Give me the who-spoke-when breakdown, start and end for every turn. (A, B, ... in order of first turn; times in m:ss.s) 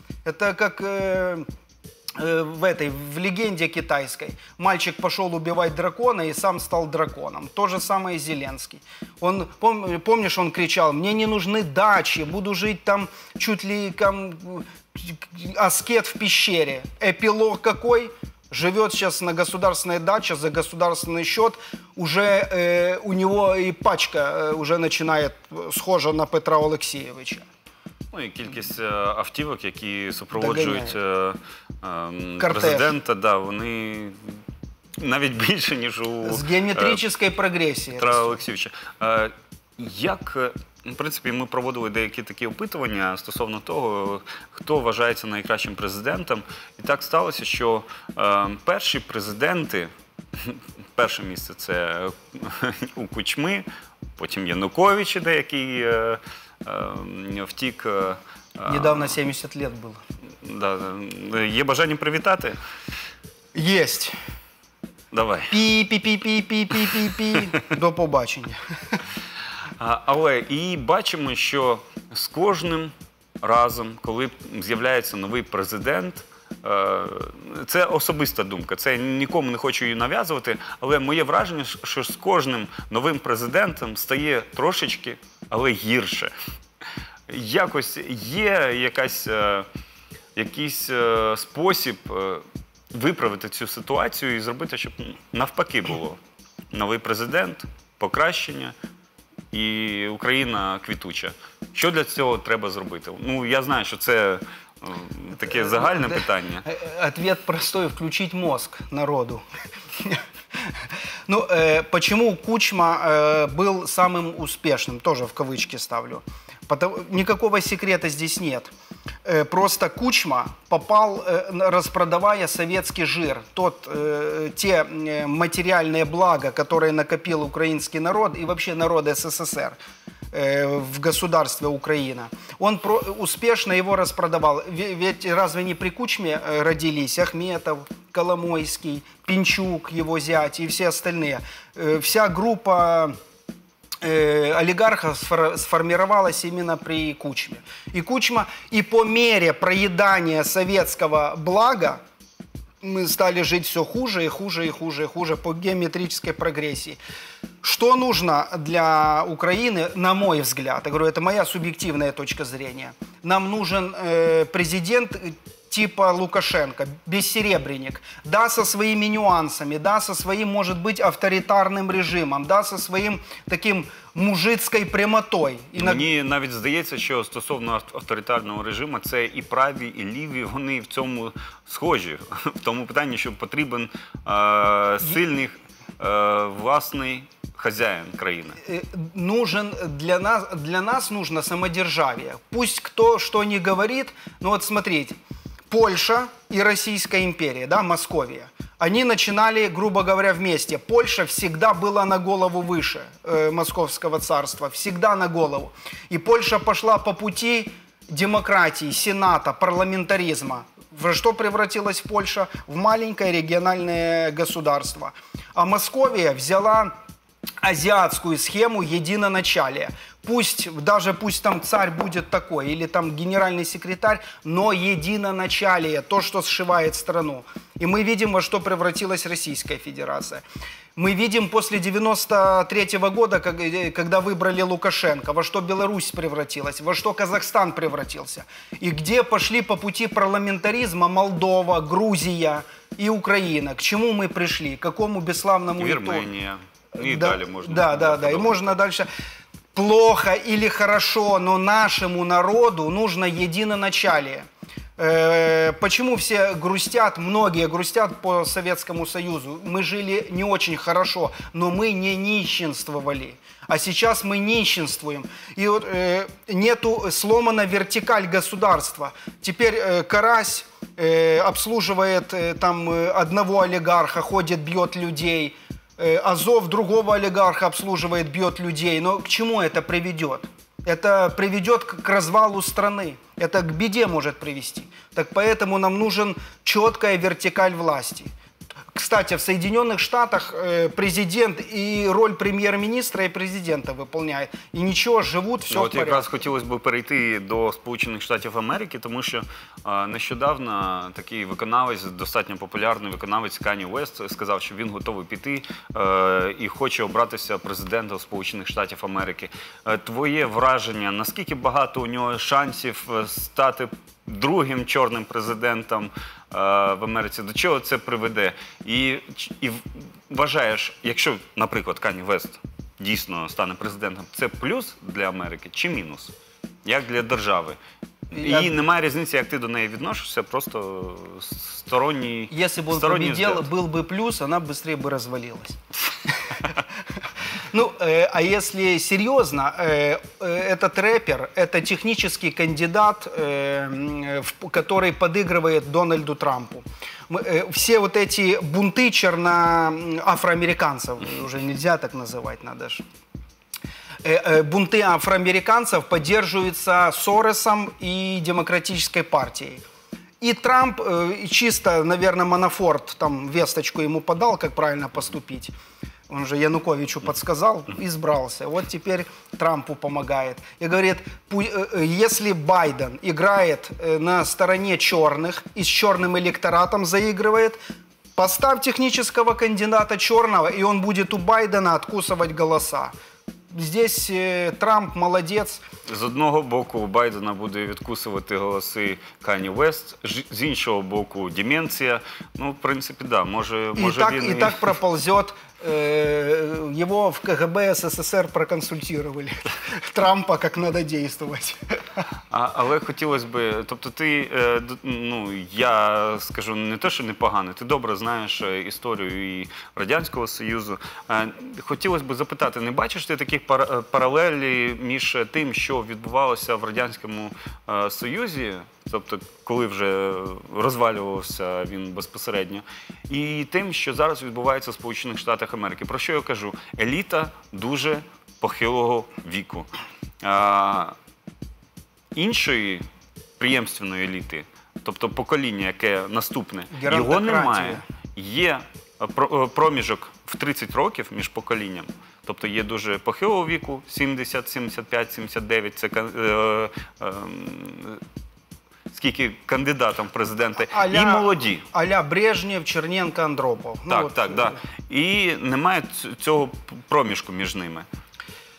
0:00.2-0:01.5 A
0:02.2-0:27.5 A
0:28.1-0:34.4 B
0:30.4-0:31.0 A
0:32.4-0:32.9 A
0:35.0-0:37.0 B
0:36.2-0:38.4 A
0:38.0-0:53.7 B
0:54.2-0:59.2 B
0:58.7-1:00.0 A
1:00.4-1:02.6 B
1:03.5-1:04.2 A
1:05.1-1:05.6 B
1:05.5-1:09.0 A
1:09.8-1:26.3 B
1:27.3-1:29.7 B
1:30.4-1:36.2 B
1:36.7-1:38.7 B
1:39.5-1:46.6 B
1:45.6-1:49.4 A
1:50.0-1:50.7 A
1:51.3-1:58.7 A
1:59.2-2:09.8 A
2:10.3-2:23.2 A
2:24.0-2:32.0 A
2:32.8-2:37.0 A
2:37.6-2:56.1 A
2:55.8-3:08.6 B
3:08.6-3:15.2 A
3:15.7-3:36.9 A
3:37.6-3:50.4 A
3:51.0-4:06.3 A
4:05.8-4:08.8 B
4:07.0-4:09.1 A
4:09.8-4:14.5 A
4:15.0-4:48.3 A
4:49.0-4:56.3 A
4:55.7-5:27.8 B
5:28.3-5:33.7 B
5:28.3-5:28.7 A
5:32.5-5:35.8 A
5:37.7-5:53.0 A
5:54.2-5:59.8 A
6:00.4-6:05.7 A
6:06.3-6:17.8 A
6:18.4-6:23.1 A
6:23.7-6:25.8 A
6:26.1-6:34.9 B
6:34.0-6:41.8 A
6:42.5-7:09.9 B
7:10.4-7:11.2 B
7:12.4-7:13.1 B
7:13.6-7:28.2 B
7:16.9-7:18.0 A
7:29.1-7:31.9 B
7:30.9-7:34.8 A
7:34.1-7:38.1 B